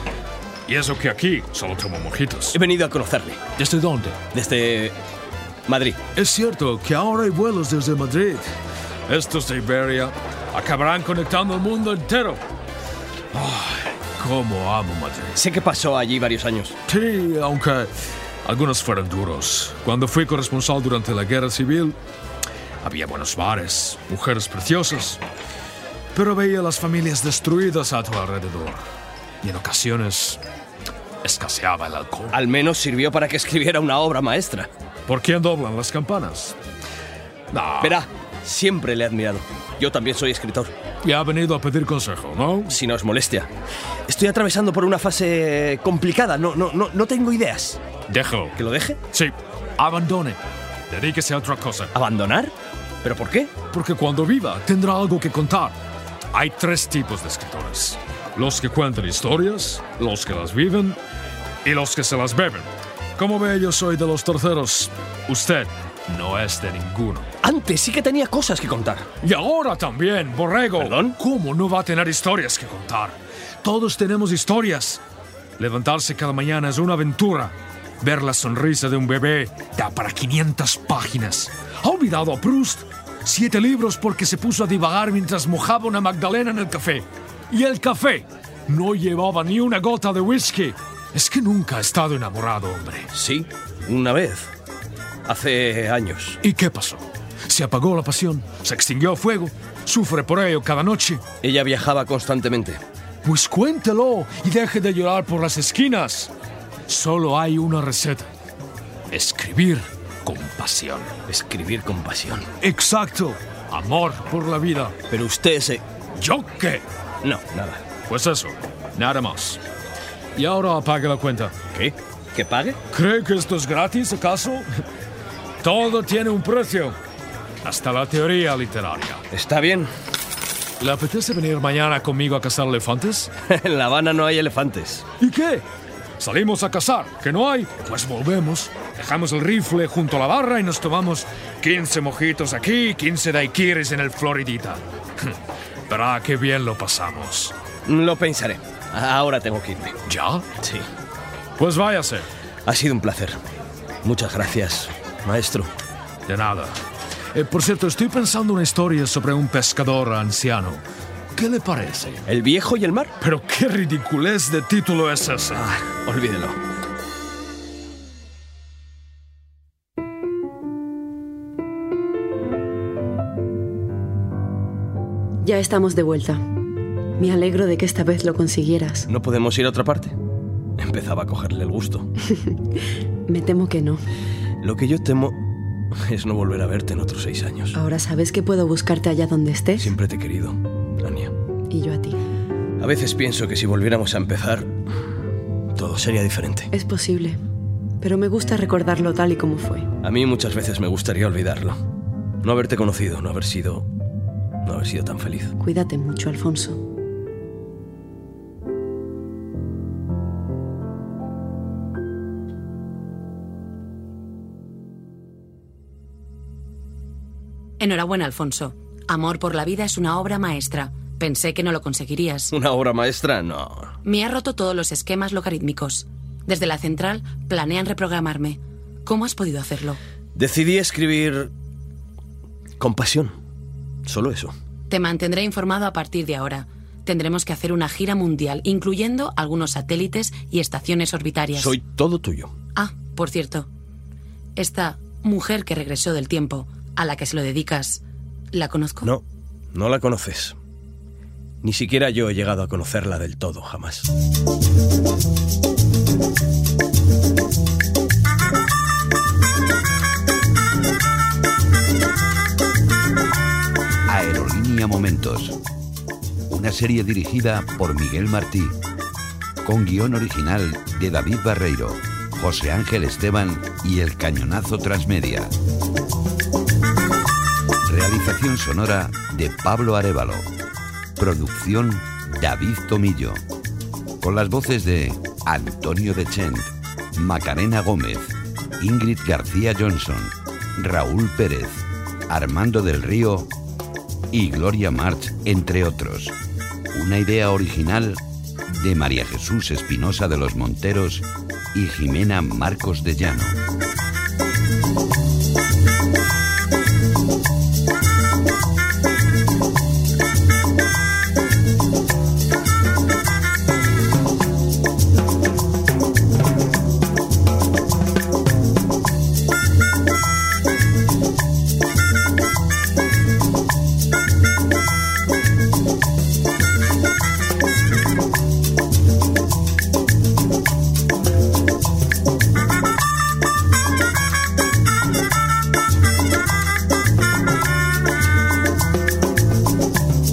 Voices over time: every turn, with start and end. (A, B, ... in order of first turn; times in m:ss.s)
0:00.7-0:02.6 A
0:02.5-0:03.5 B
0:03.6-0:04.2 A
0:04.3-0:05.0 B
0:05.7-0:06.0 B
0:06.1-0:08.4 A
0:09.1-0:12.4 A
0:13.3-0:15.4 A
0:15.4-0:16.8 B
0:16.9-0:17.9 A
0:18.4-0:22.0 A
0:22.8-0:25.2 A
0:26.1-0:28.8 A
0:29.4-0:30.4 A
0:31.2-0:32.3 A
0:32.3-0:34.7 B
0:35.1-0:36.5 A
0:37.5-0:38.0 A
0:37.8-0:40.7 B
0:41.0-0:42.8 A
0:42.7-0:43.5 B
0:44.1-0:47.8 B
0:48.1-0:48.6 A
0:48.5-0:49.0 B
0:49.1-0:50.4 A
0:50.9-0:51.9 A
0:51.9-0:53.6 B
0:53.7-0:55.8 A
0:56.3-1:01.0 A
1:01.6-1:07.3 A
1:07.4-1:09.1 B
1:09.2-1:15.0 A
1:10.8-1:11.2 B
1:15.6-1:33.1 A
1:33.1-1:34.5 B
1:35.3-1:36.4 B
1:36.4-1:41.2 A
1:41.4-1:42.8 B
1:43.2-1:46.3 A
1:46.9-1:48.3 A
1:49.1-1:51.1 A
1:51.3-1:52.5 B
1:52.6-1:54.9 A
1:55.1-1:55.8 B
1:56.2-1:56.8 A
1:57.2-1:57.8 B
1:58.1-1:59.6 A
2:00.4-2:01.5 A
2:01.7-2:02.8 B
2:02.9-2:04.6 A
2:05.6-2:07.0 A
2:07.6-2:09.2 A
2:09.3-2:09.9 B
2:10.8-2:13.3 A
2:13.4-2:15.1 B
2:15.2-2:15.6 A
2:16.2-2:25.3 A
2:25.9-2:27.5 A
2:27.9-2:30.0 B
2:30.1-2:30.4 A
2:30.6-2:30.8 B
2:31.6-2:32.3 A
2:32.7-2:33.4 B
2:34.0-2:35.7 B
2:36.3-2:36.8 A
2:37.3-2:40.8 A
2:41.3-2:42.2 A
2:42.3-2:43.1 B
2:43.2-2:45.7 A
2:45.5-2:46.6 B
2:55.4-2:56.4 C
2:57.2-2:59.1 C
2:59.1-3:00.2 B
3:00.8-3:02.1 B
3:03.3-3:04.0 C
3:04.6-3:07.8 B
3:07.7-3:09.9 C
3:09.8-3:11.3 B
3:11.7-3:12.2 C
3:12.8-3:14.7 B
3:15.7-3:16.7 B
3:16.7-3:17.4 C
3:18.0-3:19.9 C
3:20.0-3:21.8 B
3:22.4-3:23.9 B
3:24.6-3:25.5 B
3:25.6-3:26.8 C
3:37.8-3:42.5 D
3:42.5-3:43.9 B
3:44.0-3:50.0 D
3:50.3-3:51.5 B
3:52.8-3:53.4 B
3:54.0-3:54.5 B
3:54.9-4:01.8 D
4:01.5-4:02.5 B
4:02.7-4:03.7 D
4:04.6-4:09.1 D
4:09.0-4:10.6 B
4:11.6-4:14.1 B
4:24.1-4:25.6 E
4:26.5-4:28.8 E
4:29.6-4:35.5 E
4:37.8-4:40.5 E
4:41.2-4:43.4 E
4:44.2-4:53.5 E
4:54.3-4:56.4 E
4:56.9-5:03.6 E